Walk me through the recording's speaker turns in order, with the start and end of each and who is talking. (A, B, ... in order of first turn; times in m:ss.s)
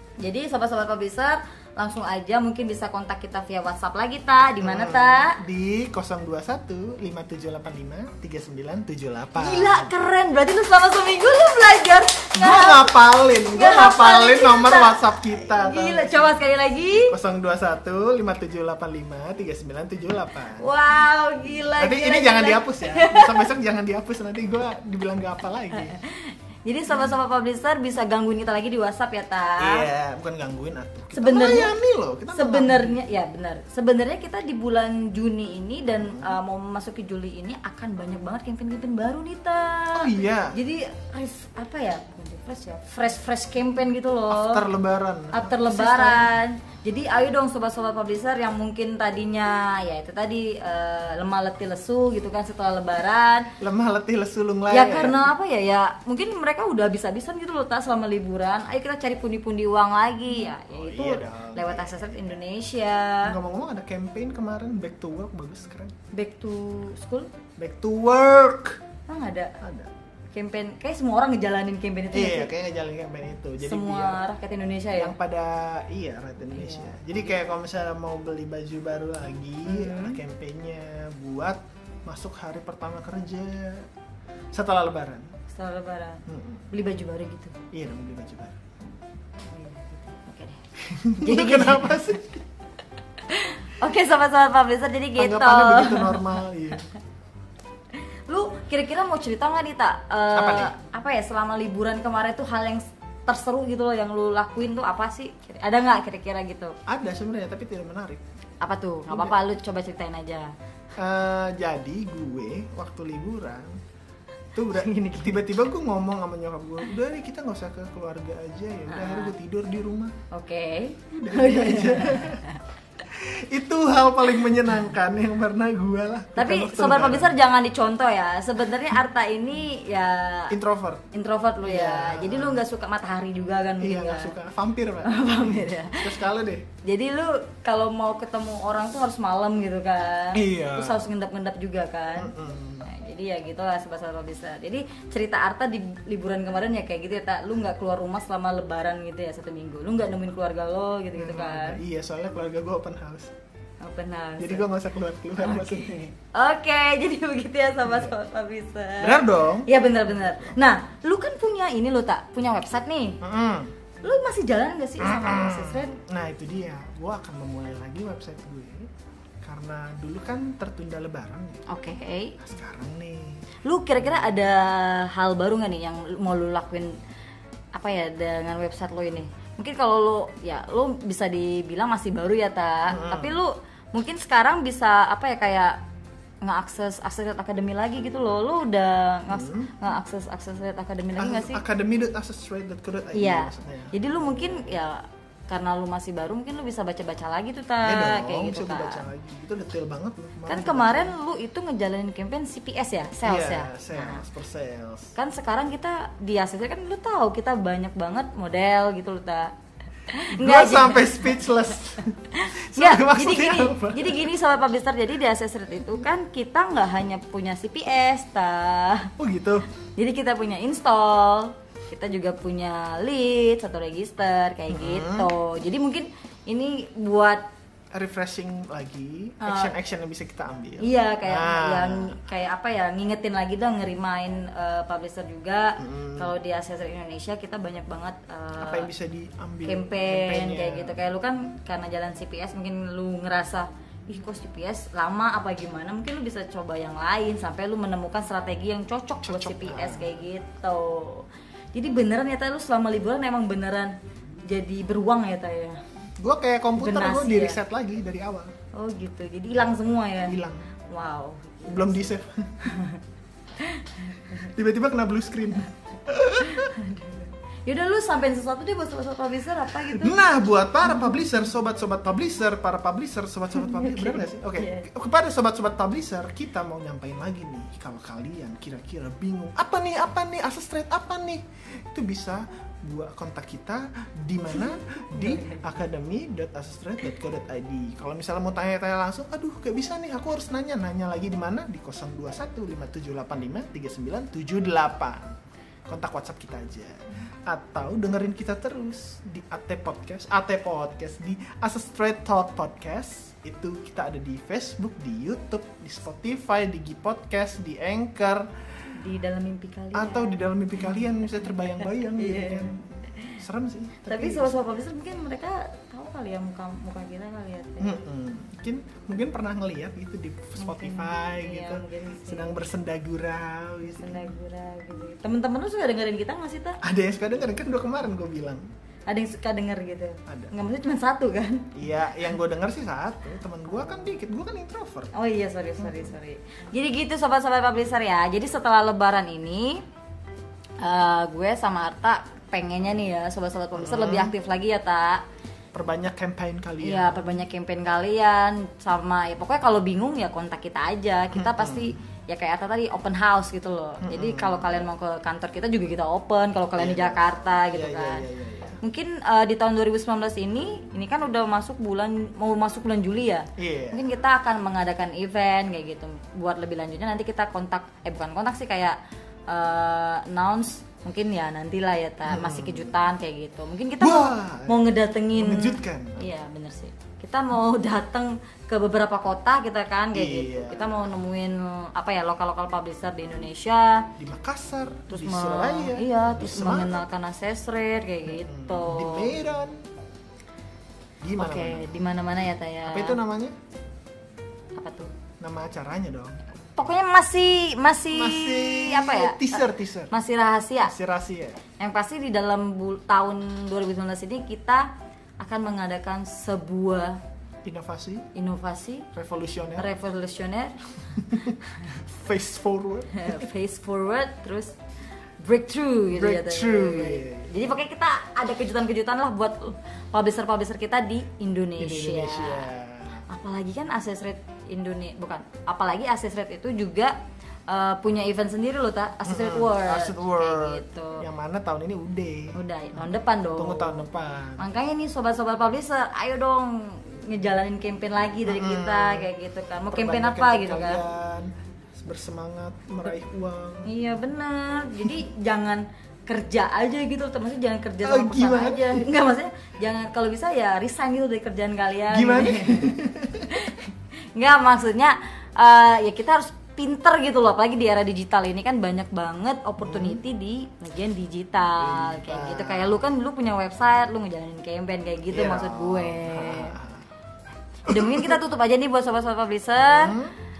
0:00.2-0:05.4 A
0:04.6-0:09.9 B
0:09.4-0:17.1 A
0:12.4-0:16.4 B
0:17.0-0:20.7 B
0:20.6-0:23.5 A
0:21.6-0:26.0 B
0:25.8-0:29.9 A
0:29.6-0:33.0 B
0:31.1-0:31.8 A
0:32.3-0:44.7 A
0:36.0-0:36.4 B
0:39.9-0:40.6 B
0:44.3-0:46.3 B
0:45.3-0:53.5 A
0:53.6-0:55.3 B
0:54.7-1:03.4 A
1:00.4-1:02.4 B
1:03.2-1:05.9 B
1:06.1-1:07.3 A
1:07.6-1:08.8 B
1:09.1-1:09.6 A
1:09.6-1:09.9 B
1:10.3-1:12.5 A
1:12.1-1:14.2 B
1:13.6-1:15.2 A
1:15.0-1:23.8 B
1:16.5-1:16.9 A
1:19.7-1:20.2 A
1:24.5-1:25.3 B
1:25.5-1:27.6 A
1:26.3-1:26.6 B
1:27.7-1:28.6 B
1:29.5-1:30.6 A
1:30.8-1:32.4 B
1:31.2-1:32.1 A
1:33.2-1:36.4 A
1:35.2-1:36.9 B
1:38.3-1:46.7 A
1:40.3-1:40.7 B
1:46.9-1:48.2 B
1:48.6-1:50.5 A
1:49.1-1:49.4 B
1:51.0-1:53.7 B
1:54.5-2:00.1 B
1:54.7-1:55.4 A
1:58.9-1:59.3 A
2:00.3-2:02.6 A
2:01.1-2:02.4 B
2:03.0-2:07.4 B
2:06.3-2:10.6 A
2:10.5-2:11.0 B
2:11.1-2:14.3 A
2:11.6-2:12.6 B
2:13.8-2:16.7 B
2:15.0-2:16.2 A
2:16.8-2:31.8 A
2:20.3-2:21.1 B
2:22.1-2:22.9 B
2:31.1-2:33.3 B
2:33.8-2:34.7 A
2:34.4-2:36.1 B
2:35.4-2:43.2 A
2:37.8-2:38.1 B
2:39.0-2:40.6 B
2:43.2-2:43.7 B
2:44.0-2:46.0 A
2:45.0-2:48.9 B
2:49.4-2:51.6 B
2:51.7-2:52.4 A
2:52.4-2:53.4 B
2:53.6-2:57.0 A
2:54.0-2:54.4 B
2:57.7-3:05.8 A
3:02.9-3:03.4 B
3:06.4-3:11.6 A
3:09.3-3:09.8 B
3:11.2-3:14.7 B
3:13.1-3:19.1 A
3:17.8-3:21.2 B
3:20.4-3:24.2 A
3:23.2-3:25.1 B
3:25.1-3:29.5 A
3:30.1-3:31.4 A
3:30.3-3:34.3 B
3:32.3-3:39.1 A
3:39.2-3:39.7 B
3:40.0-3:47.4 A
3:44.7-3:45.3 B
3:47.9-3:52.2 B
3:49.4-3:49.7 A
3:50.8-3:58.9 A
3:55.8-3:56.3 B
3:58.6-4:01.0 B
3:59.6-4:15.8 A
4:09.2-4:10.2 B
4:16.2-4:18.5 B
4:16.8-4:17.6 A
4:18.7-4:22.1 A
4:20.2-4:20.7 B
4:21.7-4:22.8 B
4:22.6-4:23.0 A
4:23.6-4:24.4 A
4:24.4-4:26.7 B
4:26.4-4:30.2 A
4:29.7-4:55.3 B
4:33.5-4:34.9 A
4:44.6-4:45.6 A
4:55.9-5:08.5 B
5:09.0-5:10.4 A
5:09.9-5:14.6 B
5:11.8-5:13.4 A
5:14.1-5:18.0 A
5:17.8-5:24.3 B
5:20.6-5:22.6 A
5:23.9-5:26.8 A
5:26.8-5:28.6 B
5:29.1-5:31.7 A
5:30.3-5:30.5 B
5:31.7-5:35.1 B
5:35.1-5:39.8 A
5:35.8-5:36.1 B
5:40.8-5:45.2 A
5:43.7-5:44.3 B
5:45.7-5:47.4 B
5:46.8-5:58.2 A
5:51.3-5:51.9 B
5:54.0-5:54.8 B
5:56.8-5:58.8 B
5:58.8-6:09.0 A
6:03.6-6:04.1 B
6:09.5-6:24.1 A
6:12.2-6:12.9 B
6:14.0-6:16.3 B
6:20.1-6:21.1 B
6:24.2-6:27.0 B
6:25.1-6:29.4 A
6:28.3-6:29.8 B
6:31.2-6:31.9 B
6:31.4-6:33.2 A
6:32.8-6:33.6 B
6:34.7-6:35.1 A
6:35.4-6:36.4 B
6:36.8-6:40.9 A
6:38.1-6:40.1 B
6:40.8-6:41.6 B
6:41.8-6:47.2 A
6:47.6-6:48.3 B
6:48.3-6:49.1 A
6:49.1-6:49.9 B
6:49.8-6:51.2 A
6:51.2-6:53.4 B
6:53.1-6:54.7 A
6:55.4-7:02.7 A
6:56.1-6:57.7 B
7:01.8-7:03.2 B
7:03.3-7:07.1 A
7:07.7-7:11.2 A
7:09.2-7:14.6 B
7:12.5-7:14.0 A
7:14.6-7:21.0 A
7:18.4-7:19.3 B
7:19.9-7:23.9 B
7:23.8-7:46.8 A
7:28.0-7:29.1 B
7:32.1-7:33.6 B
7:39.8-7:40.2 B
7:41.8-7:43.0 B
7:45.3-7:47.1 B
7:47.8-7:50.2 A
7:47.9-7:48.4 B
7:49.8-7:50.3 B